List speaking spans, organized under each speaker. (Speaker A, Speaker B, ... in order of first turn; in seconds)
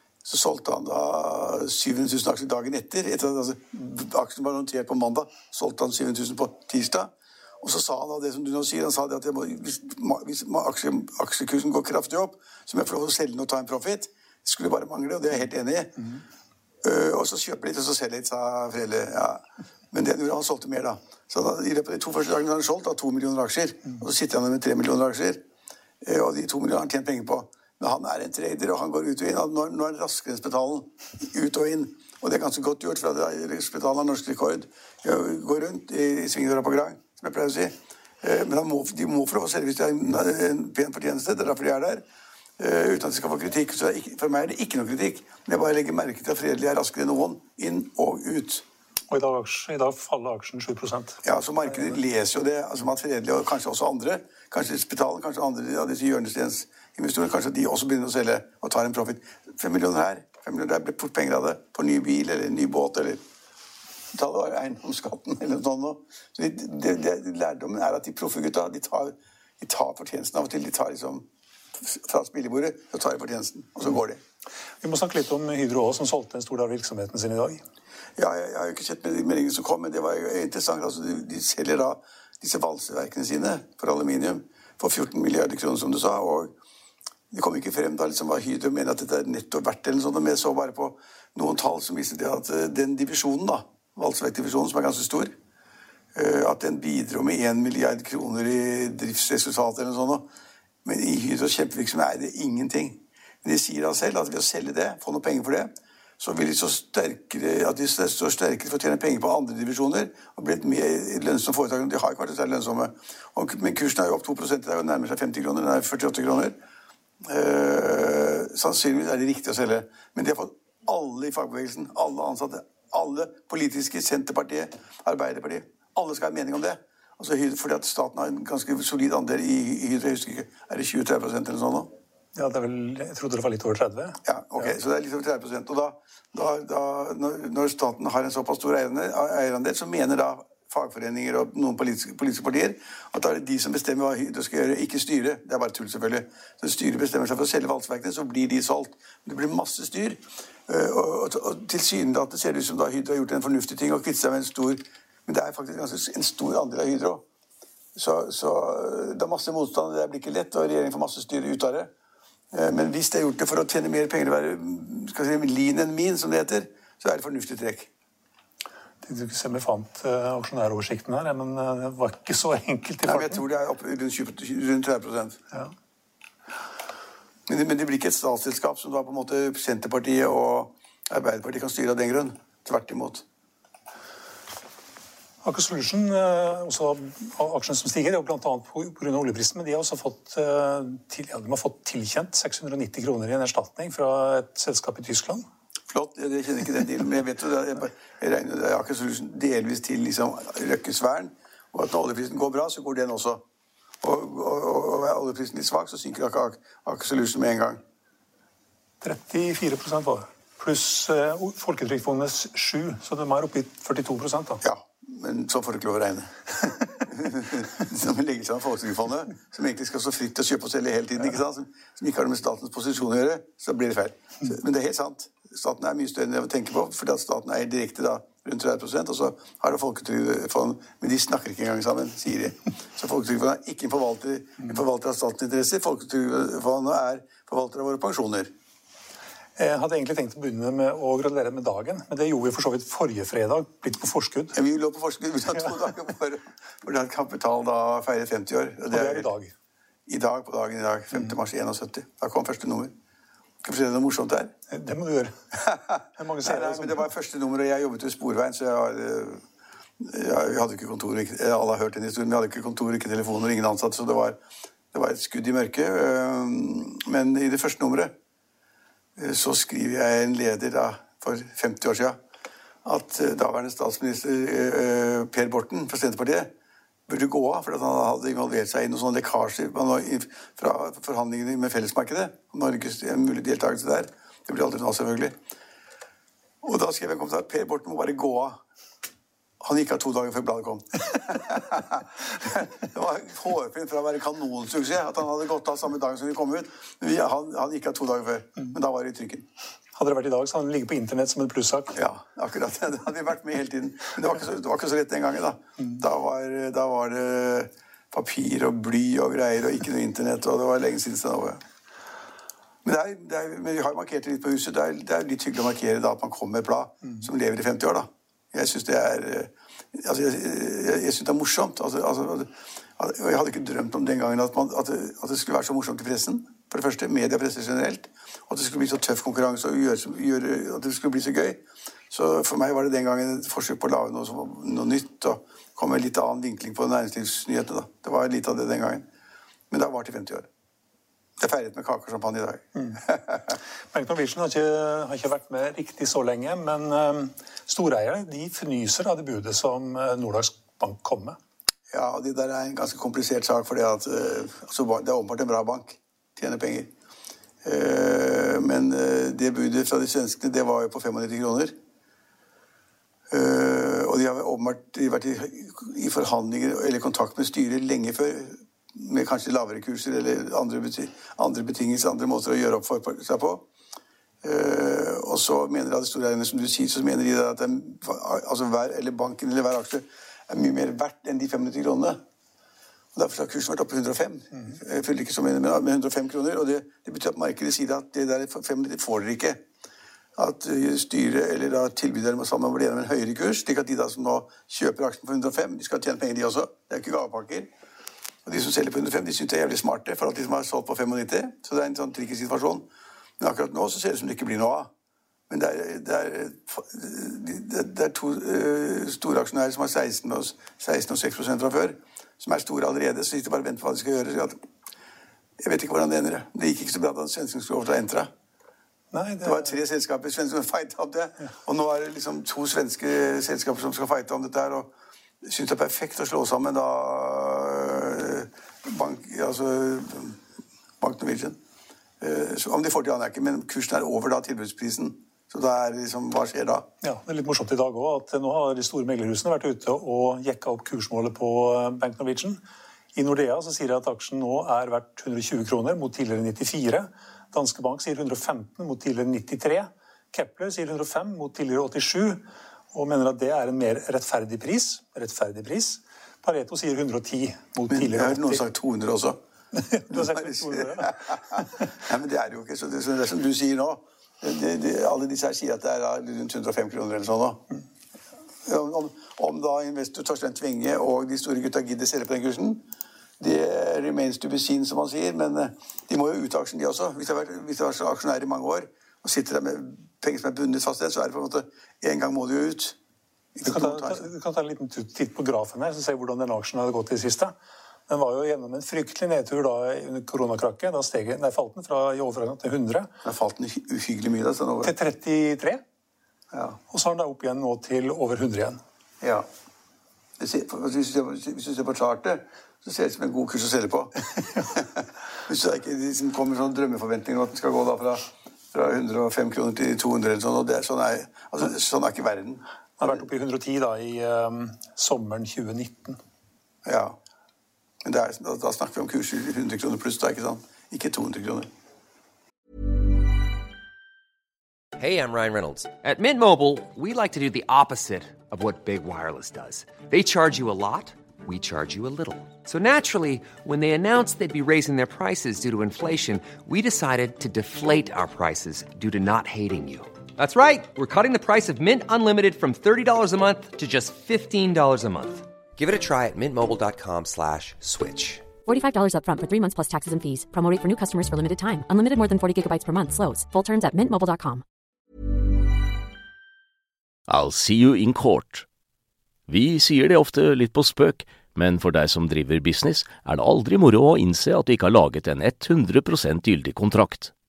Speaker A: 0.2-16.1, 16.8-25.4, 26.0-42.0, 42.6-48.7, 51.2-63.2, 64.1-71.2, 71.8-74.2, 78.2-86.5, 87.3-95.3, 96.1-100.3, 100.8-116.6, 117.2-131.9, 134.2-157.2, 157.9-161.9, 162.5-167.9, 173.0-175.4, 177.5-183.2, 195.9-203.4, 204.0-207.8, 214.6-238.5, 244.5-249.3, 250.1-252.9, 253.6-254.5, 255.6-259.4, 260.0-264.4, 264.9-268.1, 269.2-272.2, 272.8-276.5, 277.1-285.4, 286.6-288.6, 289.6-299.5, 301.9-311.6, 312.8-339.1, 339.7-340.5, 341.4-343.5, 351.9-356.9, 357.6-361.8, 363.3-373.7, 374.4-382.2, 383.1-389.6, 390.4-397.7, 398.5-402.9, 403.4-404.9, 405.5-414.6, 415.6-418.3, 419.4-430.4, 431.0-431.6, 432.2-436.9, 457.9-459.4, 460.1-467.6, 468.6-472.9, 473.4-483.0, 483.5-484.3, 493.2-494.9, 496.5-496.8, 499.2-499.5, 500.4-504.1, 504.7-513.2, 516.8-517.2, 518.0-521.7
Speaker B: 49.1-51.2, 74.8-77.6, 132.3-134.7, 169.0-173.4, 185.4-195.4, 209.0-214.6, 239.6-244.6, 248.9-249.5, 254.7-255.4, 256.1-257.1, 299.9-302.0, 342.8-343.0, 343.9-351.4, 419.1-419.8, 437.0-442.6, 443.1-458.6, 459.7-461.9, 483.6-487.5, 488.1-493.1, 494.8-495.8, 496.9-498.8, 513.0-516.2
Speaker C: 525.0-548.5
Speaker D: 548.6-554.6
Speaker E: 557.3-558.6, 559.5-567.3